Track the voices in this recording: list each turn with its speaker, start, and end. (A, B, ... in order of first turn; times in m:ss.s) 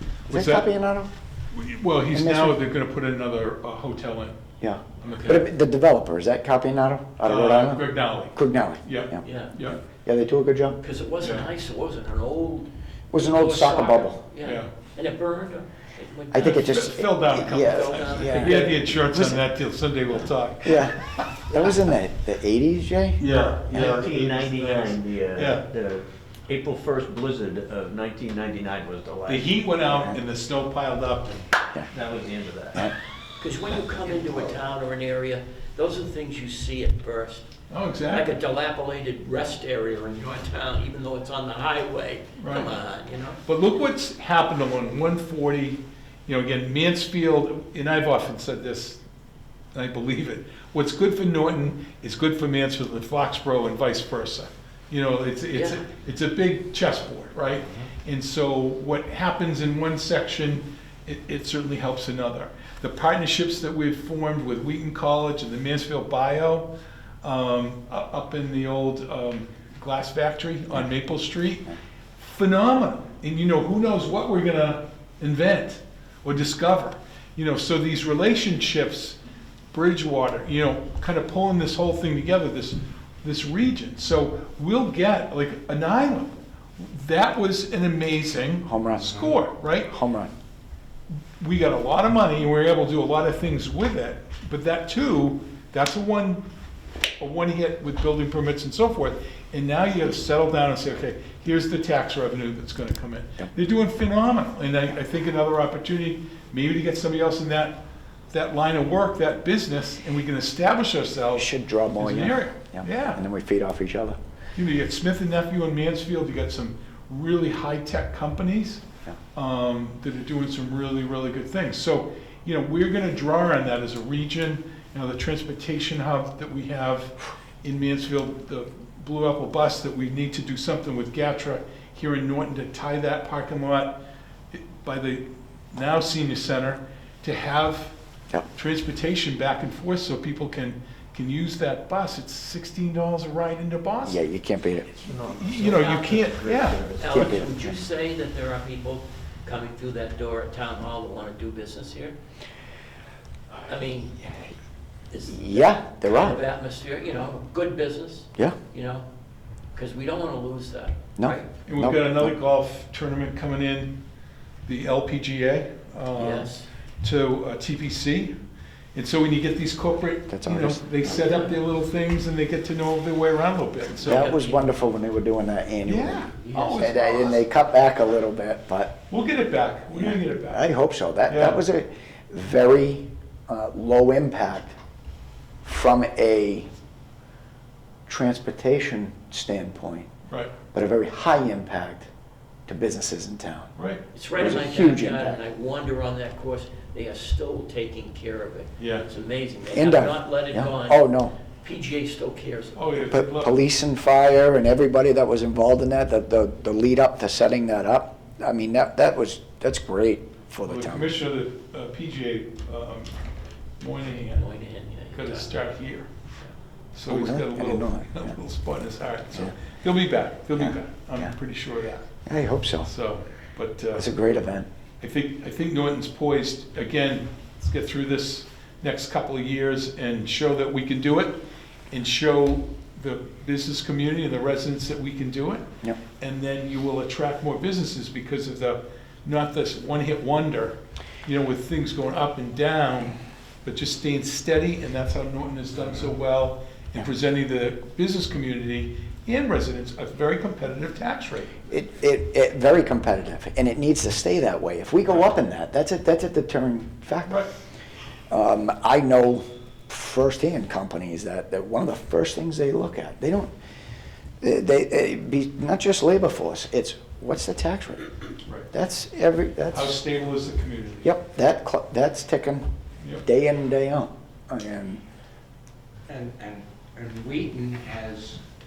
0:00.3-0:00.7 A
0:00.3-0:01.1 B
0:01.5-0:04.4 A
0:02.1-0:02.6 B
0:04.6-0:09.2 B
0:05.0-0:05.3 A
0:05.0-0:05.5 C
0:07.2-0:09.8 A
0:09.2-0:09.5 C
0:09.8-0:10.8 B
0:10.8-0:12.7 C
0:11.2-0:11.5 A
0:13.1-0:14.2 B
0:13.2-0:18.9 C
0:14.4-0:14.7 A
0:16.3-0:19.4 B
0:16.3-0:21.2 A
0:20.6-0:23.2 B
0:23.2-0:25.7 A
0:23.2-0:29.5 D
0:29.2-0:31.5 A
0:29.9-0:30.2 B
0:31.9-0:32.9 D
0:33.4-0:37.5 C
0:37.7-0:38.4 A
0:38.1-0:43.4 C
0:42.4-0:42.7 A
0:43.4-0:49.0 A
0:49.7-1:06.7 A
0:55.5-0:55.8 C
1:07.2-1:19.2 A
1:19.7-1:29.9 A
1:28.6-1:29.3 B
1:29.8-1:30.3 B
1:31.4-1:36.4 A
1:37.2-1:53.2 A
1:51.3-1:54.2 B
1:54.6-1:58.8 A
1:59.3-2:14.0 A
2:14.5-2:17.9 A
2:18.5-2:24.2 A
2:24.0-2:24.9 B
2:24.9-2:27.3 D
2:25.3-2:26.9 A
2:25.6-2:26.3 C
2:27.0-2:32.1 C
2:27.1-2:27.8 B
2:33.6-2:34.3 C
2:35.1-2:39.0 C
2:35.3-2:36.4 B
2:39.7-2:41.5 C
2:41.2-2:42.3 B
2:41.7-2:43.9 A
2:44.6-2:48.3 A
2:46.1-2:46.7 C
2:48.9-2:54.4 A
2:50.3-2:51.0 B
2:51.0-2:51.5 C
2:53.9-2:54.7 C
2:54.0-2:59.0 B
2:55.8-2:57.4 A
2:56.2-2:57.2 C
2:59.1-3:00.7 A
2:59.9-3:04.7 B
3:01.3-3:01.6 A
3:05.6-3:06.7 B
3:08.1-3:10.1 B
3:10.3-3:10.5 A
3:10.7-3:12.1 B
3:12.7-3:13.7 B
3:13.8-3:14.0 A
3:14.1-3:23.1 C
3:14.4-3:15.4 B
3:18.8-3:19.0 A
3:19.7-3:21.3 B
3:22.8-3:23.5 A
3:23.1-3:31.1 B
3:30.6-3:33.1 A
3:33.8-3:34.5 A
3:34.2-3:35.6 C
3:35.1-3:36.1 A
3:36.9-3:42.1 A
3:37.0-3:38.3 B
3:40.5-3:41.3 B
3:42.2-3:42.9 B
3:42.8-3:44.1 A
3:44.0-3:44.7 B
3:45.0-3:55.7 A
3:56.2-4:11.6 A
4:11.7-4:17.5 B
4:18.3-4:23.5 B
4:24.4-4:28.1 B
4:28.7-4:30.0 B
4:29.7-4:31.2 A
4:31.0-4:32.6 B
4:33.2-4:35.0 B
4:36.1-4:38.3 E